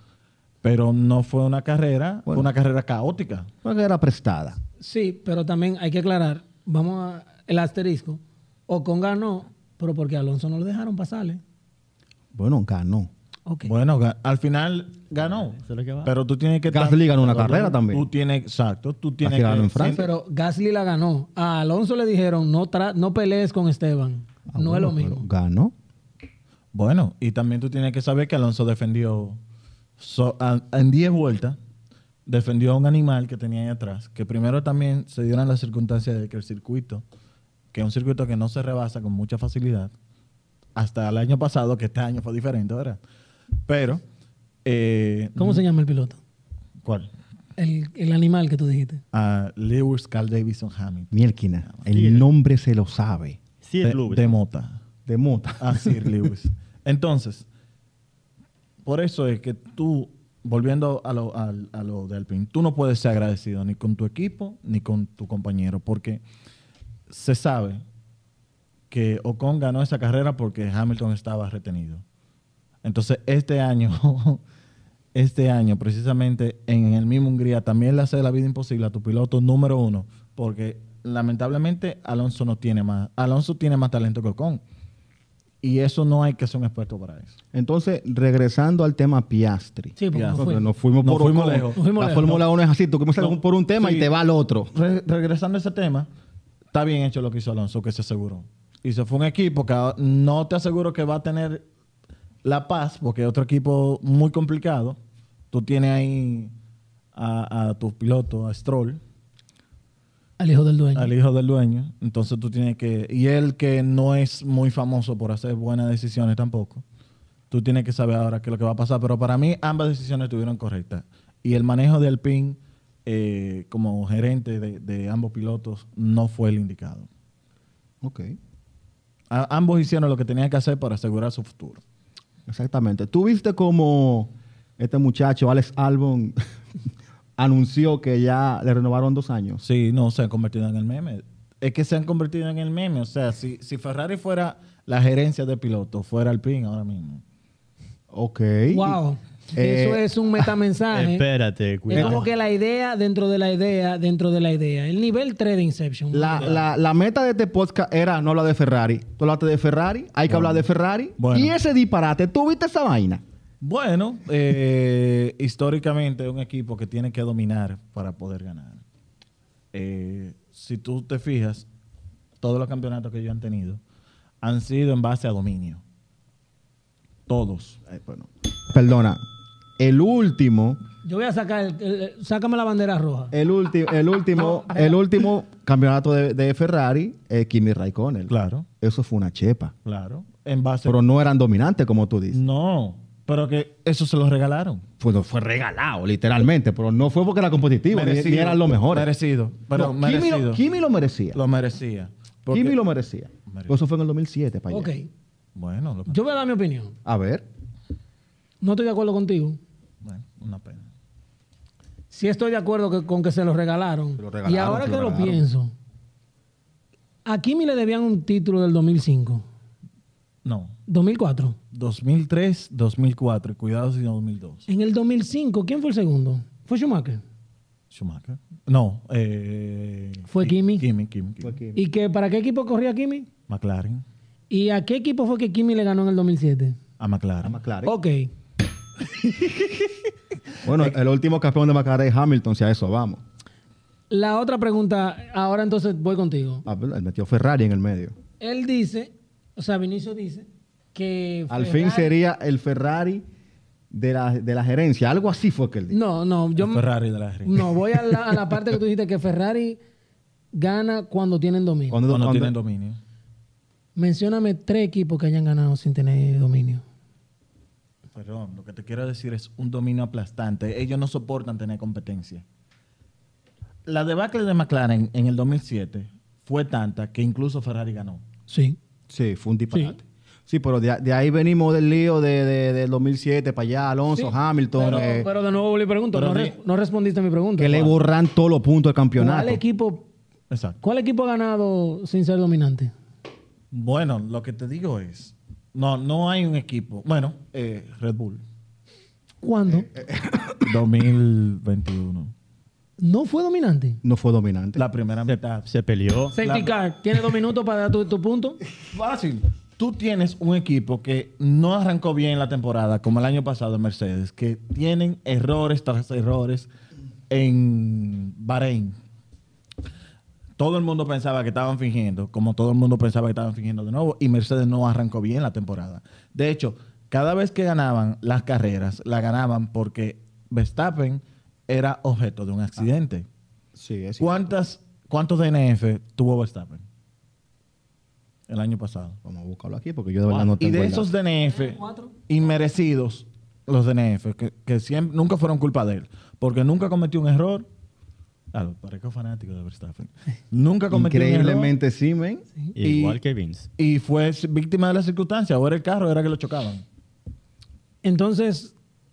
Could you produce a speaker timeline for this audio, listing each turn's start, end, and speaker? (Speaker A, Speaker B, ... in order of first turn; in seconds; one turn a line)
Speaker A: 0.6-3.5
Speaker B: 3.6-4.6
Speaker C: 4.8-11.4
Speaker B: 12.3-13.1
Speaker A: 13.6-20.1
Speaker D: 15.5-16.1
Speaker B: 16.7-18.1
Speaker B: 19.2-20.1
Speaker C: 19.9-25.2
Speaker B: 24.5-25.7
Speaker A: 26.7-29.4
Speaker A: 30.0-31.6
Speaker A: 32.2-37.0
Speaker A: 37.7-39.9
Speaker A: 40.7-43.0
Speaker A: 43.6-44.0
Speaker A: 44.6-45.6
Speaker C: 45.4-46.2
Speaker A: 46.8-47.1
Speaker C: 47.6-49.0
Speaker A: 49.1-51.1
Speaker B: 51.1-53.4
Speaker D: 51.9-52.2
Speaker D: 53.6-54.4
Speaker A: 53.8-54.8
Speaker B: 55.0-56.0
Speaker A: 55.6-57.5
Speaker A: 58.8-66.2
Speaker A: 67.1-67.8
Speaker A: 68.9-72.0
Speaker A: 72.8-74.4
Speaker A: 75.1-84.6
Speaker A: 85.6-87.3
Speaker B: 87.5-94.7
Speaker C: 90.0-90.7
Speaker A: 90.1-92.4
Speaker C: 91.8-92.4
Speaker A: 93.2-94.1
Speaker A: 94.7-96.1
Speaker A: 96.7-101.6
Speaker A: 102.4-105.0
Speaker A: 105.5-106.5
Speaker A: 107.1-109.0
Speaker C: 110.4-111.1
Speaker A: 110.9-116.8
Speaker A: 117.5-127.1
Speaker B: 128.0-128.3
Speaker A: 129.3-131.8
Speaker B: 132.5-136.3
Speaker B: 137.4-139.6
Speaker A: 139.6-147.2
Speaker B: 148.1-149.0
Speaker C: 148.7-151.2
Speaker B: 149.5-150.1
Speaker D: 150.9-152.3
Speaker C: 151.9-156.5
Speaker B: 156.1-163.2
Speaker A: 156.4-156.6
Speaker A: 160.3-160.6
Speaker A: 161.2-161.5
Speaker A: 163.6-168.8
Speaker A: 169.7-171.7
Speaker A: 172.4-173.8
Speaker A: 174.4-175.8
Speaker A: 177.3-177.8
Speaker B: 177.9-179.2
Speaker B: 179.8-180.8
Speaker C: 181.0-183.3
Speaker B: 183.3-189.7
Speaker C: 184.4-184.9
Speaker A: 188.3-188.7
Speaker A: 189.8-191.0
Speaker B: 190.8-192.4
Speaker A: 192.3-194.8
Speaker B: 195.0-199.1
Speaker A: 197.9-200.6
Speaker B: 199.7-201.4
Speaker A: 201.3-202.8
Speaker B: 202.5-204.9
Speaker A: 203.5-203.8
Speaker C: 204.7-205.1
Speaker A: 205.5-206.2
Speaker C: 206.1-206.9
Speaker B: 207.0-207.4
Speaker C: 208.6-209.6
Speaker A: 210.0-210.9
Speaker C: 212.1-215.7
Speaker B: 214.2-215.4
Speaker C: 217.2-219.4
Speaker A: 220.4-220.8
Speaker C: 220.9-221.6
Speaker A: 221.7-224.6
Speaker C: 224.7-227.2
Speaker A: 227.9-231.6
Speaker C: 230.3-230.9
Speaker B: 231.4-231.8
Speaker C: 231.7-233.3
Speaker A: 233.5-234.0
Speaker C: 234.5-236.8
Speaker A: 237.0-237.6
Speaker B: 237.4-237.9
Speaker C: 237.8-238.3
Speaker B: 240.6-243.2
Speaker C: 244.1-246.6
Speaker B: 246.7-248.1
Speaker C: 248.4-252.1
Speaker B: 251.5-253.2
Speaker B: 253.9-256.0
Speaker C: 255.9-256.8
Speaker A: 256.6-257.8
Speaker C: 257.4-259.8
Speaker C: 260.5-262.0
Speaker B: 261.9-262.5
Speaker A: 262.1-263.0
Speaker C: 263.9-266.8
Speaker A: 268.1-272.4
Speaker A: 273.9-278.2
Speaker C: 278.5-278.8
Speaker B: 279.1-285.3
Speaker C: 284.1-287.9
Speaker A: 284.8-285.1
Speaker A: 286.1-286.5
Speaker B: 287.6-289.6
Speaker C: 289.2-290.1
Speaker A: 290.5-290.8
Speaker C: 290.8-292.9
Speaker A: 293.7-298.4
Speaker C: 299.4-299.9
Speaker B: 299.9-300.6
Speaker A: 300.6-302.3
Speaker C: 303.0-304.0
Speaker B: 304.0-304.8
Speaker A: 304.8-305.7
Speaker D: 305.2-306.3
Speaker A: 306.3-306.7
Speaker C: 306.3-308.6
Speaker A: 308.9-316.7
Speaker A: 317.3-318.9
Speaker A: 320.6-333.3
Speaker B: 333.7-334.5
Speaker A: 334.2-336.8
Speaker A: 338.5-339.2
Speaker B: 339.2-341.1
Speaker A: 340.3-347.7
Speaker C: 341.5-342.1
Speaker A: 348.5-351.7
Speaker B: 350.9-353.1
Speaker D: 352.7-353.7
Speaker A: 353.8-356.8
Speaker C: 358.0-358.7